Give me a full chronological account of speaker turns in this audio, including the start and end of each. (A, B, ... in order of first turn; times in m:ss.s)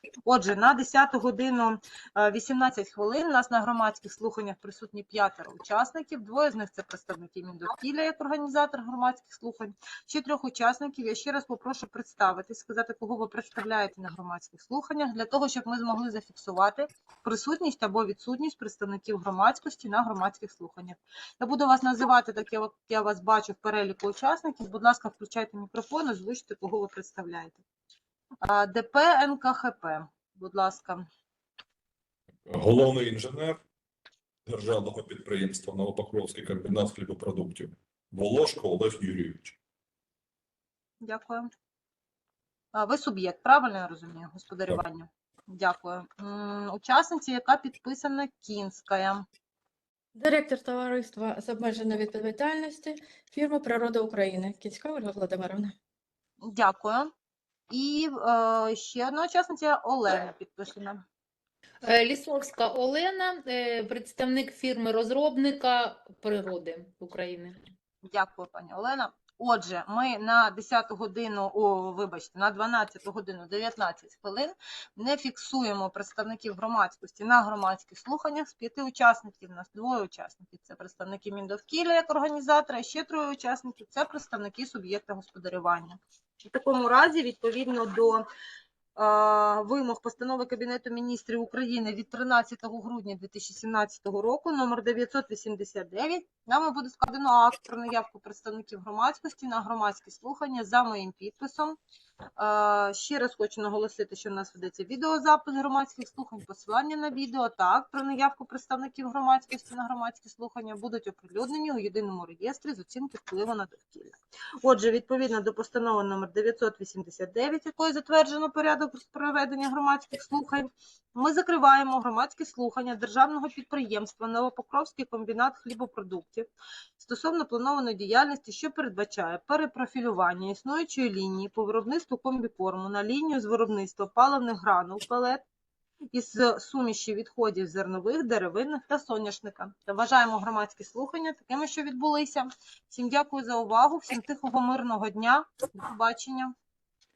0:00.2-0:27.6 A
0:28.4-0:31.1 A
0:32.5-0:33.6 B
0:34.4-0:39.6 B
0:41.0-0:41.5 A
0:42.7-0:49.2 A
0:50.1-0:55.7 C
0:56.4-0:57.1 A
0:57.7-1:01.0 A
1:01.8-1:07.6 D
1:08.0-1:28.2 A
1:29.0-1:41.8 A
1:42.4-2:06.5 A
2:07.0-2:15.4 A
2:16.1-2:26.5 A